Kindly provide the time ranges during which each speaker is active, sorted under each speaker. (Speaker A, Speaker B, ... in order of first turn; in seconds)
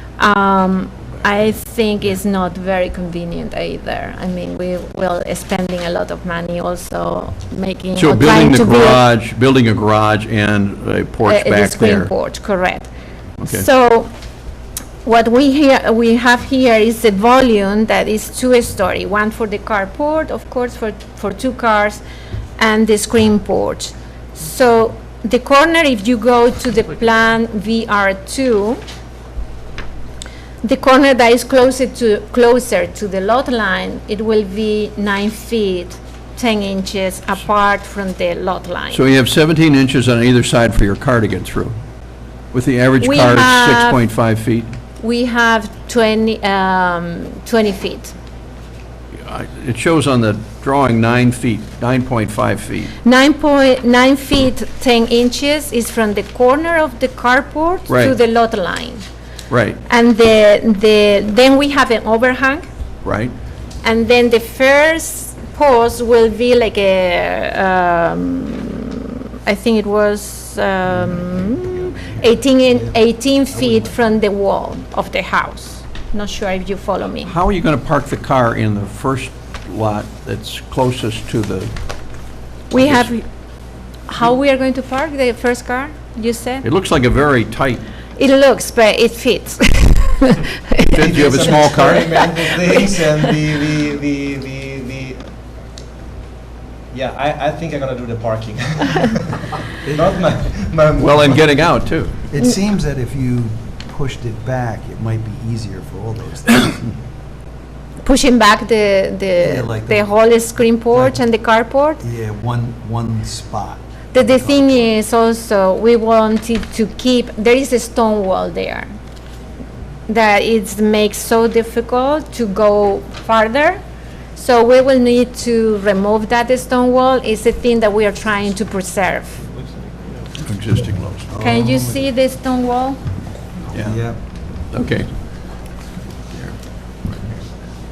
Speaker A: 0.2-9.0, 11.2-12.9, 13.4-14.1, 15.0-22.0, 22.6-28.8, 30.6-39.0, 43.0-44.0, 45.0-48.1, 53.0-59.0, 59.9-62.7, 63.8-77.3, 82.7-83.2, 84.1-86.7, 88.2-92.8, 108.0-112.0, 114.1-118.9, 120.1-123.8, 124.3-129.4, 131.4-133.0
Speaker B: 8.0-12.1, 13.4-13.7, 38.9-41.7, 42.5-44.7, 49.2-52.9, 57.9-58.1, 59.5-59.8, 63.0-63.3, 77.2-81.7, 82.8-83.1, 86.6-87.8, 90.8-92.3, 101.0-102.2, 130.4-131.3, 133.7-134.0, 134.7-135.1, 136.3-137.2
Speaker C: 71.2-72.9, 73.5-74.0, 99.8-100.2, 102.2-106.9, 109.4-110.2, 110.9-111.2, 112.0-114.9, 131.3-132.1, 133.7-134.2
Speaker D: 90.9-95.2, 96.9-99.4, 99.9-101.5